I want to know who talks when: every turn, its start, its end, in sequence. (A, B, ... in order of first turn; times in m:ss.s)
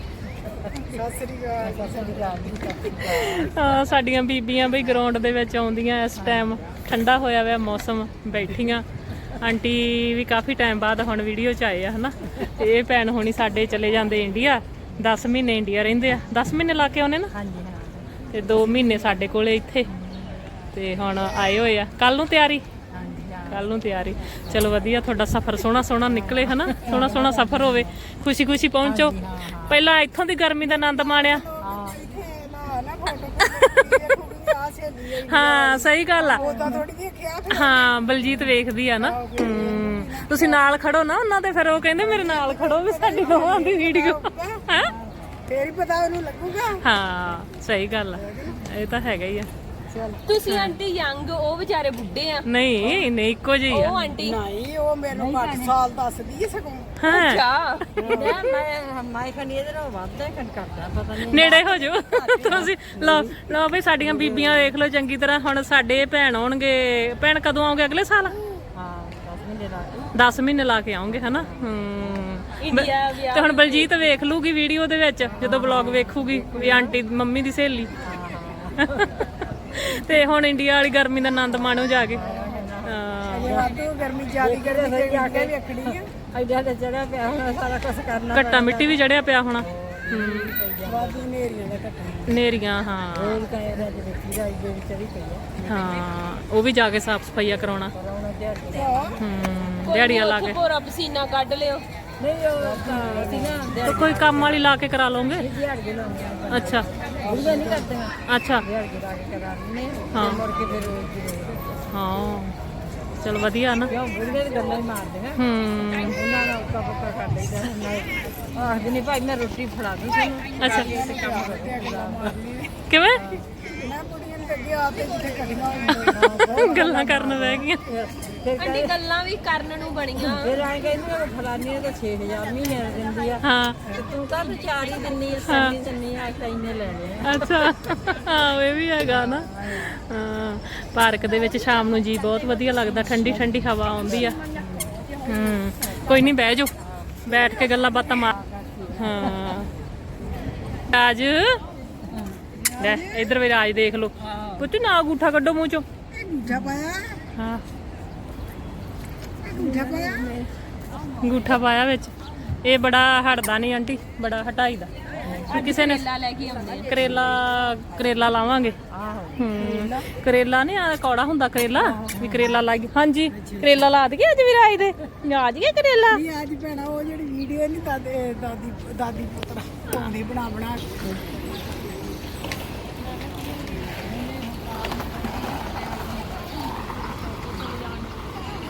0:00.4-0:00.9 A
0:00.8-0:03.2 B
0:01.6-0:03.5 A
0:03.0-0:08.9 C
0:06.2-0:06.5 A
0:09.4-0:17.3 C
0:17.3-0:18.9 A
0:18.3-0:19.9 C
0:19.9-0:20.5 A
0:20.7-0:22.6 C
0:22.9-0:23.8 A
0:23.5-0:31.4 C
0:24.5-0:24.8 A
0:26.1-0:28.0 A
0:28.8-0:29.8 A
0:30.6-0:38.4 B
0:31.6-0:32.0 A
0:35.2-0:36.4 C
0:36.4-0:36.8 A
0:37.5-0:44.9 C
0:39.0-0:40.6 B
0:41.9-0:44.6 B
0:45.5-0:46.8 B
0:46.8-0:49.5 C
0:48.1-0:48.6 B
0:49.9-0:50.2 B
0:50.3-0:52.5 D
0:50.5-0:50.8 C
0:52.5-0:54.1 C
0:52.8-0:53.1 B
0:53.7-0:54.4 D
0:54.2-0:57.3 B
0:55.2-0:55.7 A
0:57.0-0:57.4 C
0:57.1-0:57.9 D
0:58.0-0:58.5 B
0:58.0-1:04.8 A
1:01.2-1:08.4 C
1:08.7-1:10.2 A
1:10.1-1:17.9 C
1:11.1-1:12.1 A
1:12.6-1:14.0 D
1:15.3-1:17.0 A
1:18.0-1:19.1 A
1:18.8-1:22.2 C
1:22.1-1:23.8 A
1:22.3-1:22.6 B
1:22.8-1:23.7 C
1:23.3-1:26.1 B
1:24.4-1:31.3 A
1:28.3-1:30.6 C
1:30.8-1:32.4 B
1:32.3-1:33.4 C
1:33.1-1:35.7 A
1:35.6-1:37.9 C
1:37.9-1:39.3 A
1:38.7-1:39.2 B
1:39.2-1:40.6 C
1:39.8-1:41.8 D
1:42.2-1:44.8 A
1:42.6-1:44.1 B
1:43.8-1:45.5 C
1:45.4-1:51.9 A
1:46.5-1:46.9 C
1:47.2-1:47.9 B
1:48.3-1:48.7 C
1:50.1-1:50.5 C
1:51.9-1:52.5 C
1:53.2-1:53.9 C
1:53.9-1:55.4 A
1:55.4-1:56.2 C
1:56.1-2:02.4 A
2:00.6-2:00.9 C
2:00.6-2:02.8 B
2:02.9-2:03.4 C
2:03.1-2:03.5 A
2:03.7-2:07.2 B
2:06.1-2:07.8 C
2:06.1-2:09.0 A
2:08.6-2:10.6 D
2:10.2-2:17.6 A
2:13.4-2:13.8 C
2:15.4-2:15.8 C
2:17.2-2:24.4 C
2:19.3-2:19.7 A
2:24.5-2:25.0 A
2:25.2-2:28.4 C
2:26.8-2:27.2 A
2:28.4-2:28.9 A
2:29.0-2:29.7 C
2:30.9-2:31.6 C
2:32.5-2:33.4 B
2:32.8-2:35.8 C
2:34.3-2:34.5 A
2:36.1-2:37.2 B
2:37.4-2:37.6 C
2:39.4-2:40.5 B
2:41.2-2:44.9 C
2:45.2-2:45.7 A
2:45.4-2:47.4 D
2:45.5-2:46.0 C
2:46.8-2:48.8 C
2:48.9-2:49.4 A
2:49.4-2:56.2 C
2:49.6-2:50.0 B
2:51.8-2:52.6 A
2:53.4-2:53.7 A
2:56.1-3:01.3 B
3:03.0-3:04.1 C
3:04.2-3:04.6 A
3:04.6-3:05.4 D
3:05.9-3:06.2 A
3:07.2-3:08.4 C